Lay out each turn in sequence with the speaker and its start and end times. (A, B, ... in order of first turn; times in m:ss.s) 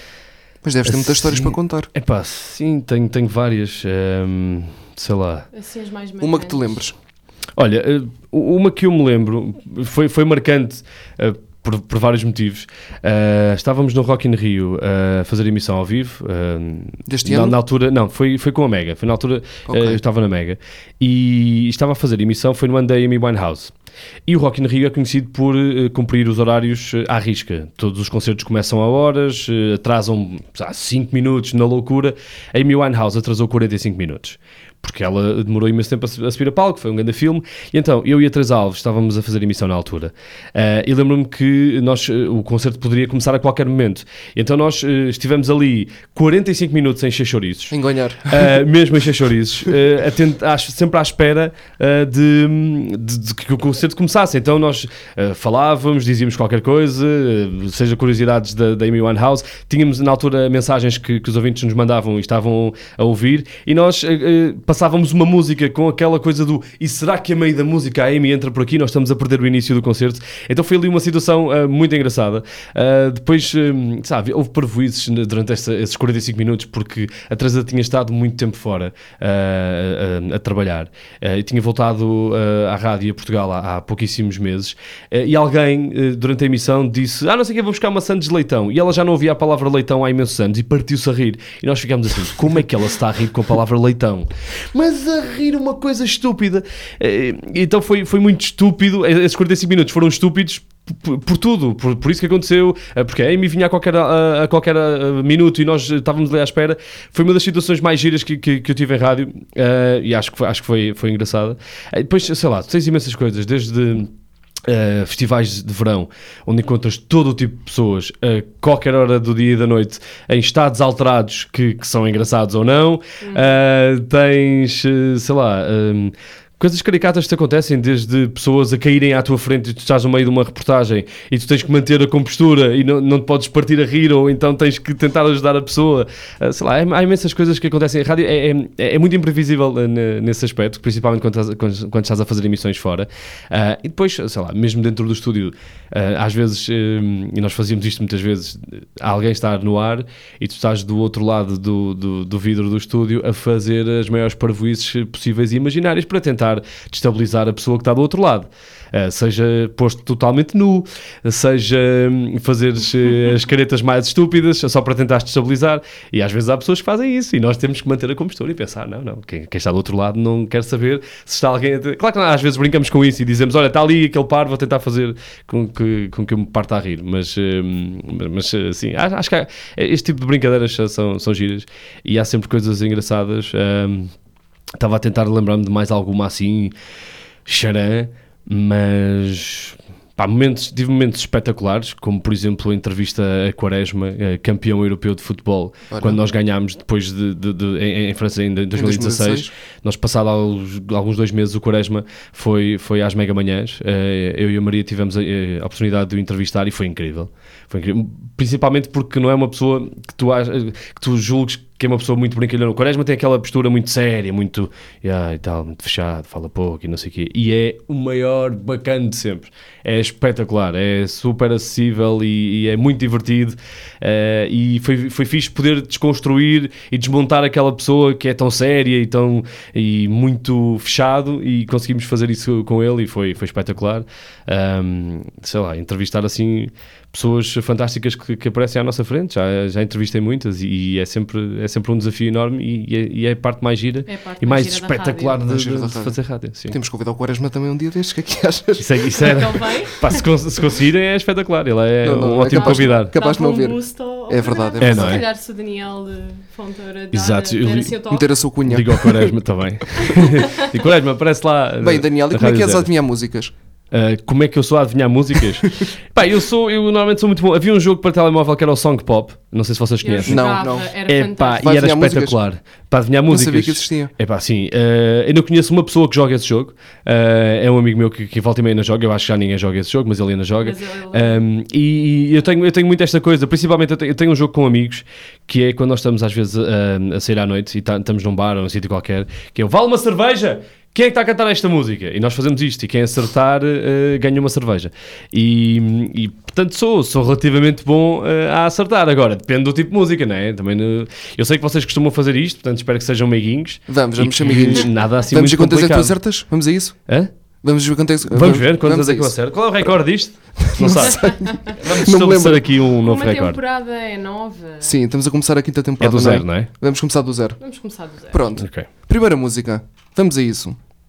0:00.6-0:01.9 A
0:00.9-0:05.5 B
0:05.5-0:06.8 C
0:06.2-0:07.0 A
0:07.6-0:23.7 B
0:17.1-0:17.6 A
0:19.7-0:20.0 A
0:24.3-1:54.1 B
0:47.7-0:48.4 A
1:54.6-3:04.1 B
2:03.2-2:03.6 C
3:04.8-3:06.7 B
3:07.5-4:06.8 B
3:15.9-3:16.2 A
3:18.7-3:19.5 A
4:04.1-4:05.4 C
4:05.4-4:06.2 A
4:06.7-4:09.4 A
4:08.8-4:13.1 B
4:09.2-4:10.2 C
4:12.0-4:15.2 A
4:12.5-4:18.3 C
4:14.8-4:15.3 B
4:17.1-4:18.0 B
4:18.1-4:19.3 A
4:18.6-4:22.9 B
4:21.8-4:23.5 A
4:23.9-4:30.5 B
4:30.0-4:31.7 C
4:30.2-4:30.9 A
4:31.1-5:06.2 B
4:31.6-4:32.4 A
4:33.3-4:34.1 A
4:40.6-4:41.4 C
5:03.9-5:07.0 A
5:07.6-5:09.3 A
5:08.3-5:13.6 B
5:10.6-5:12.7 A
5:11.4-5:11.7 C
5:13.0-5:14.9 C
5:14.8-5:17.6 A
5:16.0-5:16.7 B
5:17.6-5:18.5 C
5:18.3-5:20.8 A
5:18.6-5:18.9 B